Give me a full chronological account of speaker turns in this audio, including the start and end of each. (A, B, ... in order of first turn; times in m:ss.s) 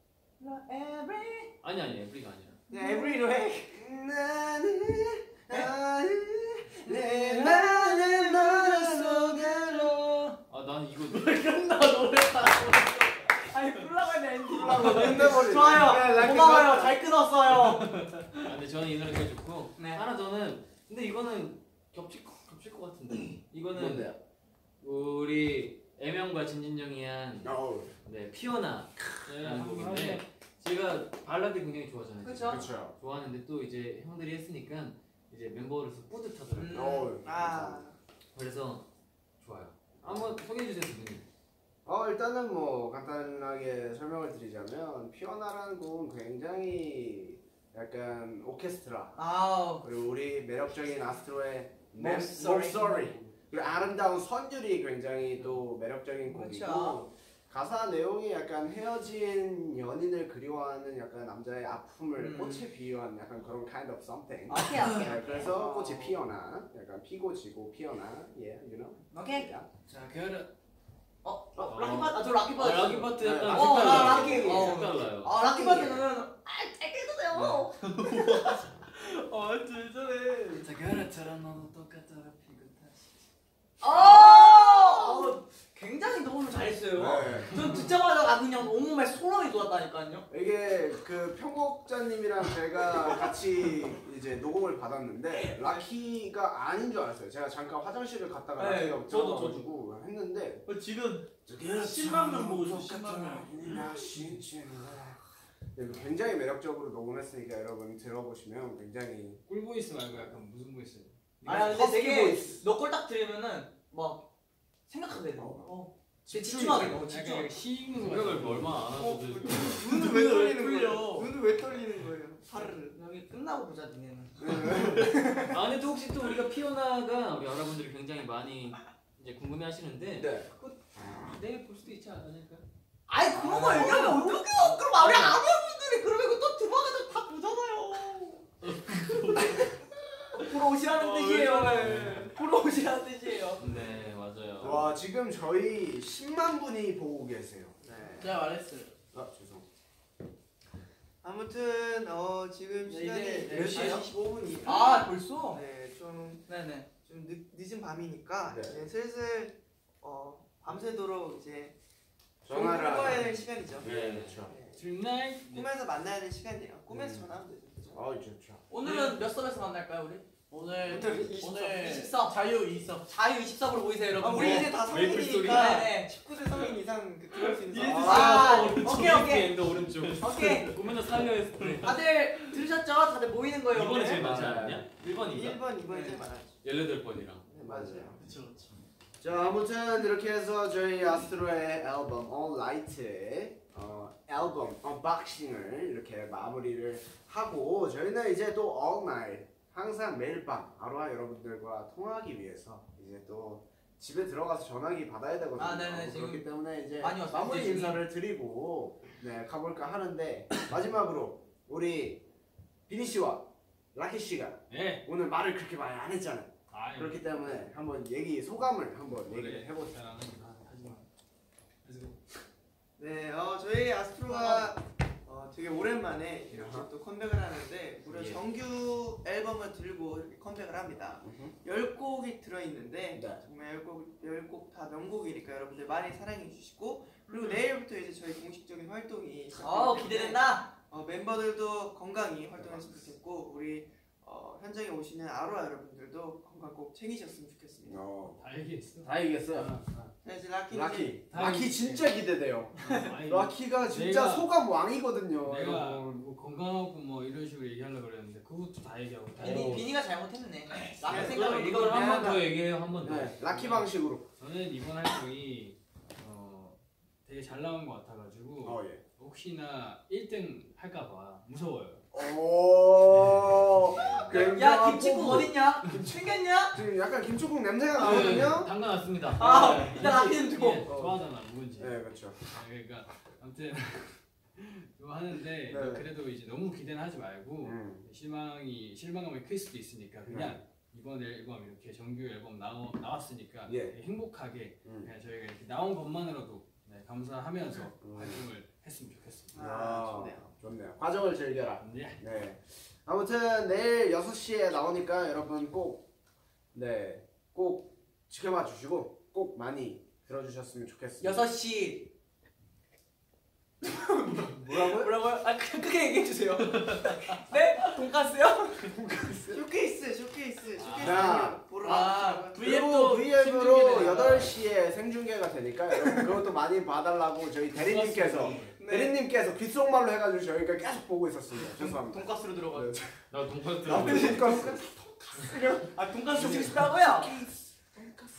0:00.4-0:01.5 A
0:01.6-0:02.6 B
0:02.7-0:03.2 A
0:02.7-0:03.8 C
0:03.7-0:10.1 D
0:06.8-0:10.4 A
0:10.5-0:11.5 B
0:11.1-0:14.0 E
0:13.3-0:17.8 A
0:14.5-0:15.5 E
0:14.5-0:17.0 D
0:17.5-0:18.5 E
0:18.4-0:24.2 B
0:19.8-0:20.0 A
0:23.7-0:24.2 D
0:24.8-0:37.0 B
0:27.4-0:27.9 D
0:29.3-0:30.2 F
0:32.2-0:32.6 A
0:32.5-0:33.0 D
0:36.5-0:37.1 A
0:36.7-0:37.8 D
0:37.2-0:38.0 C
0:38.3-0:38.8 B
0:39.4-0:41.3 B
0:40.0-0:40.3 D
0:41.8-0:49.2 D
0:49.2-0:49.9 A
0:49.8-1:09.7 D
0:52.0-0:53.2 A
0:56.2-0:57.1 A
1:02.2-1:02.6 A
1:04.5-1:05.5 A
1:05.3-1:06.2 C
1:09.1-1:09.5 A
1:11.2-1:18.6 A
1:11.6-1:15.4 B
1:13.2-1:16.0 D
1:17.3-1:17.6 B
1:17.8-1:20.6 E
1:20.5-1:23.1 C
1:23.8-1:30.3 A
1:24.0-1:24.8 D
1:26.9-1:27.5 D
1:27.6-1:27.9 F
1:30.3-1:40.6 D
1:38.6-1:39.6 A
1:39.1-1:39.7 F
1:40.7-1:41.2 A
1:40.7-1:41.2 E
1:41.5-1:45.2 D
1:41.8-1:43.7 E
1:45.8-1:49.4 D
1:49.5-1:51.9 F
1:50.1-1:50.4 D
1:51.4-1:54.3 A
1:51.5-1:52.6 D
1:54.9-1:57.6 A
1:55.4-1:55.7 D
1:56.3-1:57.0 D
1:56.5-1:58.8 F
1:58.0-1:59.8 B
1:58.9-2:03.0 C
1:59.7-2:01.3 A
1:59.7-2:00.9 E
2:02.9-2:05.4 A
2:04.4-2:05.4 D
2:05.5-2:10.4 B
2:10.2-2:11.3 D
2:11.2-2:12.6 B
2:13.1-2:18.4 A
2:13.4-2:14.0 D
2:13.7-2:14.1 B
2:13.7-2:14.3 E
2:18.6-2:19.8 E
2:19.3-2:19.7 A
2:20.3-2:23.7 A
2:20.9-2:22.2 E
2:21.7-2:22.3 B
2:23.6-2:25.0 B
2:24.6-2:27.8 D
2:27.8-2:28.4 C
2:28.2-2:28.9 E
2:29.1-2:29.6 D
2:31.2-2:36.5 C
2:32.8-2:34.1 E
2:33.5-2:34.1 A
2:34.6-2:35.6 A
2:36.5-2:36.9 A
2:37.0-2:41.8 C
2:38.5-2:38.9 D
2:42.4-2:44.5 D
2:42.5-2:44.8 C
2:43.8-2:44.4 B
2:44.7-2:45.7 F
2:45.4-2:48.0 C
2:46.9-2:47.3 D
2:47.9-2:48.6 D
2:48.7-2:50.2 A
2:48.8-2:49.2 E
2:50.5-2:53.1 E
2:50.9-2:51.3 C
2:51.1-2:52.4 A
2:53.1-2:56.1 A
2:54.2-2:58.6 C
2:54.4-2:55.9 B
2:57.4-3:02.0 E
2:57.8-2:58.5 D
2:58.0-2:59.5 A
2:58.6-3:01.9 B
3:00.2-3:00.7 A
3:01.8-3:04.4 A
3:03.7-3:05.6 B
3:04.2-3:04.8 D
3:05.0-3:06.6 C
3:05.9-3:06.3 A
3:06.6-3:07.5 B
3:07.5-3:08.2 C
3:07.6-3:08.2 D
3:08.2-3:08.8 E
3:09.2-3:32.2 D
3:25.6-3:26.5 A
3:27.0-3:28.0 A
3:32.9-3:40.0 D
3:34.7-3:35.0 F
3:36.7-3:37.5 F
3:39.3-3:41.1 F
3:41.8-3:42.3 F
3:43.0-4:08.0 C
3:44.4-3:44.6 D
3:46.5-3:46.9 D
3:48.0-3:48.4 B
3:51.2-3:51.5 D
3:53.2-3:53.4 D
3:59.5-4:00.7 A
4:02.6-4:02.9 D
4:07.8-4:08.4 D
4:08.4-4:10.1 F
4:09.0-4:09.7 D
4:10.2-4:11.2 C
4:10.7-4:16.1 D
4:11.3-4:12.1 F
4:12.8-4:14.5 F
4:15.4-4:19.9 F
4:19.4-4:22.4 A
4:19.4-4:19.8 D
4:21.0-4:22.4 C
4:21.1-4:23.3 B
4:23.0-4:24.3 D
4:23.1-4:32.0 F
4:28.6-4:29.0 D
4:32.1-4:36.1 D
4:34.0-4:34.3 B
4:34.3-4:36.8 A
4:36.7-4:38.7 D
4:38.0-4:40.8 B
4:38.1-4:38.5 F
4:39.4-4:40.8 A
4:39.4-4:59.6 F
4:40.9-4:41.2 D
4:41.8-4:42.4 D
4:45.7-4:46.1 D
4:47.6-4:48.1 D
4:50.2-4:50.6 D
4:53.7-4:54.0 D
4:54.8-4:55.1 D
4:58.0-4:58.4 D
4:59.5-5:00.5 C
4:59.6-5:06.1 D
5:01.8-5:02.2 F
5:06.7-5:11.4 D
5:11.2-5:12.1 A
5:13.8-5:18.9 A
5:14.5-5:15.1 D
5:16.6-5:17.1 E
5:18.9-5:19.6 D
5:19.5-5:22.6 C
5:20.8-5:21.4 B
5:20.8-5:21.2 F
5:21.0-5:21.6 D
5:21.8-5:22.5 A
5:21.8-5:24.5 E
5:22.6-5:33.1 D
5:23.9-5:24.4 A
5:27.7-5:28.8 F
5:28.8-5:29.2 A
5:31.6-5:33.0 A
5:33.3-5:34.5 B
5:33.8-5:35.3 D
5:34.0-5:34.6 A
5:34.5-5:34.8 C
5:35.3-5:35.6 C
5:35.4-5:37.4 A
5:36.3-5:38.0 D